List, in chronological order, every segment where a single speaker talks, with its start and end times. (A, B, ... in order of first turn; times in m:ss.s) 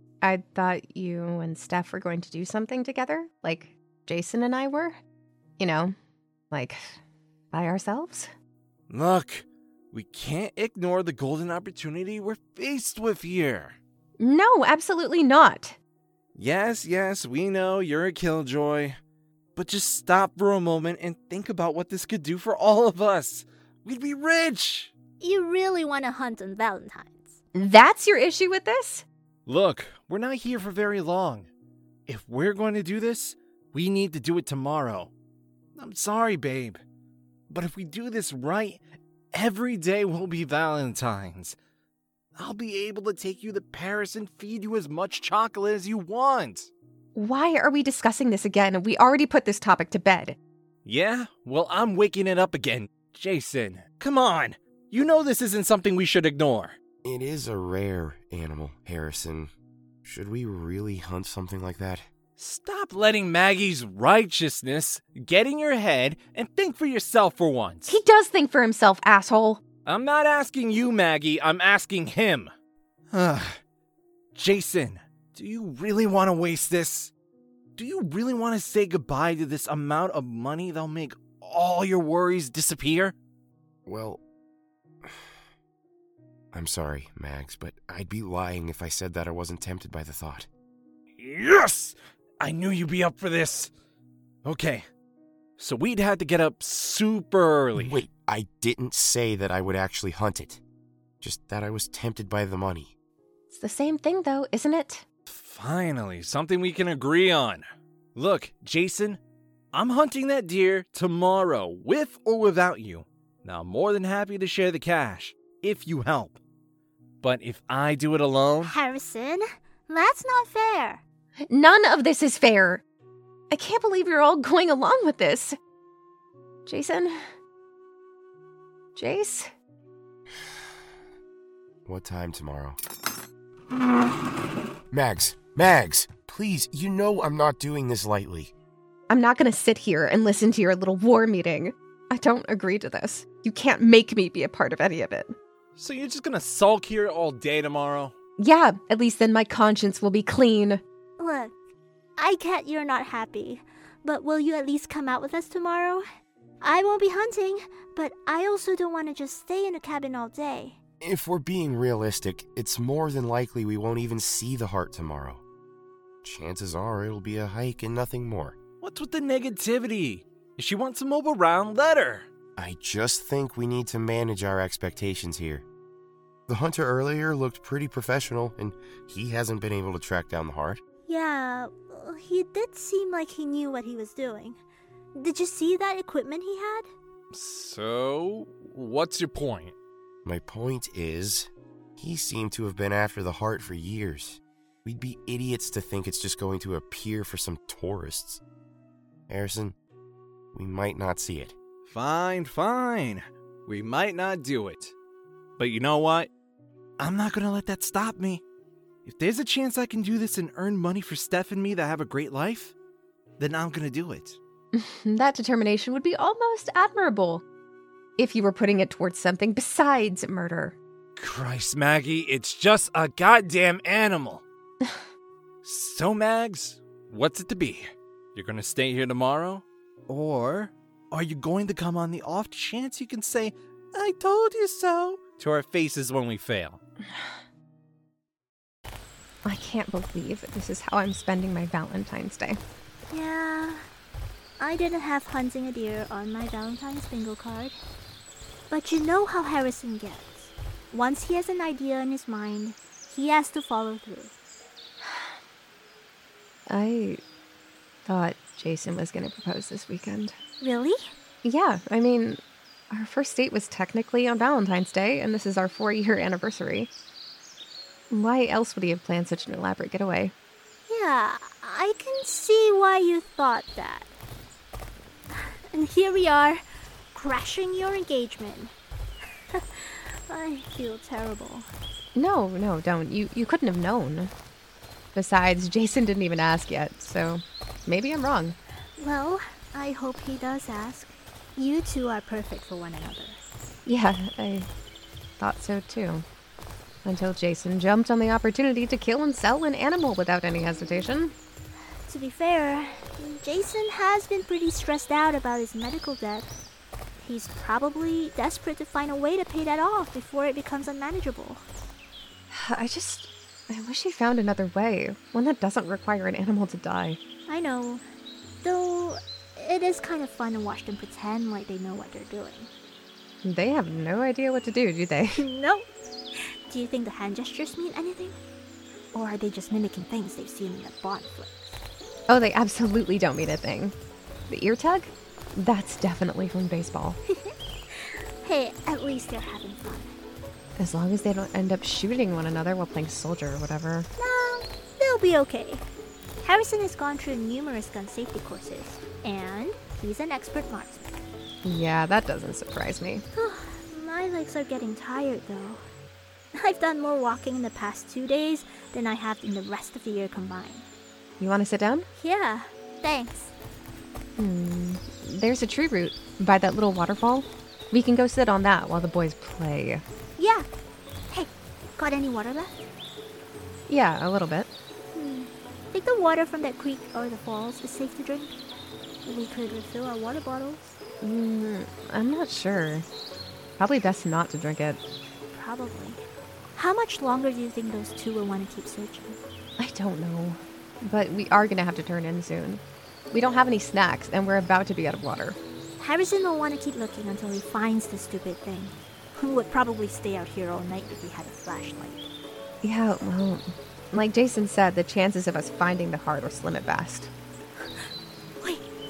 0:00.2-0:05.0 A
0:05.6-0:05.9 A
0:06.5-0:07.0 A
0:07.5-0:08.3 A
0:08.9-0:13.8 B
0:14.2-0:15.8 A
0:16.4-0:19.0 B
0:19.6-0:24.9 B
0:25.2-0:27.4 C
0:27.5-0:29.0 A
0:29.5-0:31.5 B
0:32.1-0:35.1 B
0:35.8-0:36.8 B
0:37.5-0:38.8 B
0:39.3-0:41.6 B
0:42.4-0:46.7 B
0:47.1-0:50.4 A
0:50.8-0:56.8 B
0:57.0-0:59.5 D
1:00.0-1:02.1 D
1:02.4-1:08.0 B
1:07.9-1:09.6 A
1:09.8-1:12.5 B
1:13.1-1:13.6 B
1:14.3-1:17.1 B
1:17.8-1:23.1 B
1:23.8-1:24.2 D
1:25.0-1:25.3 D
1:26.5-1:30.5 D
1:31.2-1:33.7 B
1:34.4-1:34.8 B
1:35.6-1:38.0 B
1:37.8-1:40.6 D
1:41.2-1:42.9 D
1:43.5-1:45.0 A
1:45.3-1:49.2 B
1:49.7-1:56.4 B
1:57.2-1:58.7 B
1:58.6-2:01.0 C
2:01.5-2:02.8 A
2:03.5-2:05.6 A
2:06.6-2:07.2 A
2:08.9-2:09.5 A
2:11.8-2:12.8 D
2:14.9-2:18.5 D
2:19.1-2:25.3 A
2:25.8-2:28.1 B
2:28.4-2:30.8 A
2:31.2-2:31.5 C
2:32.2-2:36.0 C
2:36.6-2:40.8 C
2:41.0-2:45.4 D
2:46.2-2:48.6 D
2:48.8-2:52.3 B
2:52.6-2:55.6 D
2:56.5-3:00.8 D
3:01.1-3:04.6 C
3:05.1-3:06.9 C
3:07.3-3:09.7 B
3:10.2-3:18.4 D
3:19.3-3:19.7 D
3:20.5-3:21.6 D
3:21.8-3:24.9 B
3:25.6-3:26.3 B
3:27.0-3:28.4 B
3:29.0-3:32.7 B
3:33.4-3:34.4 B
3:34.7-3:37.4 A
3:38.2-3:40.8 A
3:41.2-3:44.4 B
3:45.6-3:56.8 B
3:59.4-4:02.6 A
4:03.1-4:03.8 C
4:04.6-4:07.7 C
4:08.7-4:14.3 C
4:16.7-4:17.2 A
4:18.0-4:20.4 A
4:20.6-4:21.1 C
4:21.4-4:22.4 A
4:22.9-4:26.9 A
4:28.1-4:30.3 A
4:30.9-4:34.1 C
4:35.3-4:36.6 C
4:37.1-4:38.7 C
4:39.5-4:41.7 C
4:42.1-4:44.3 A
4:45.1-4:48.6 A
4:49.0-4:53.4 C
4:53.8-4:54.7 A
4:55.4-4:56.2 A
4:57.0-5:01.3 A
5:02.1-5:06.5 C
5:07.2-5:11.6 C
5:12.5-5:17.2 A
5:17.5-5:18.0 C
5:18.6-5:22.7 C
5:23.4-5:25.4 A
5:25.4-5:25.8 C
5:26.7-5:28.4 C
5:29.1-5:31.8 C
5:32.3-5:33.9 A
5:34.5-5:37.2 A
5:37.3-5:40.1 C
5:40.8-5:44.1 A
5:44.2-5:45.8 C
5:46.4-5:51.2 C
5:51.6-5:53.2 A
5:53.3-5:55.8 C
5:56.5-6:00.8 C
6:01.4-6:02.1 A
6:02.1-6:03.5 C
6:04.4-6:10.0 A
6:10.4-6:10.7 C
6:11.3-6:12.8 C
6:13.9-6:14.7 A
6:15.1-6:18.6 C
6:19.2-6:21.0 C
6:21.2-6:23.0 A
6:23.8-6:25.0 A
6:25.5-6:26.2 C
6:26.7-6:29.4 C
6:29.8-6:35.6 A
6:36.0-6:42.2 C
6:42.8-6:47.3 A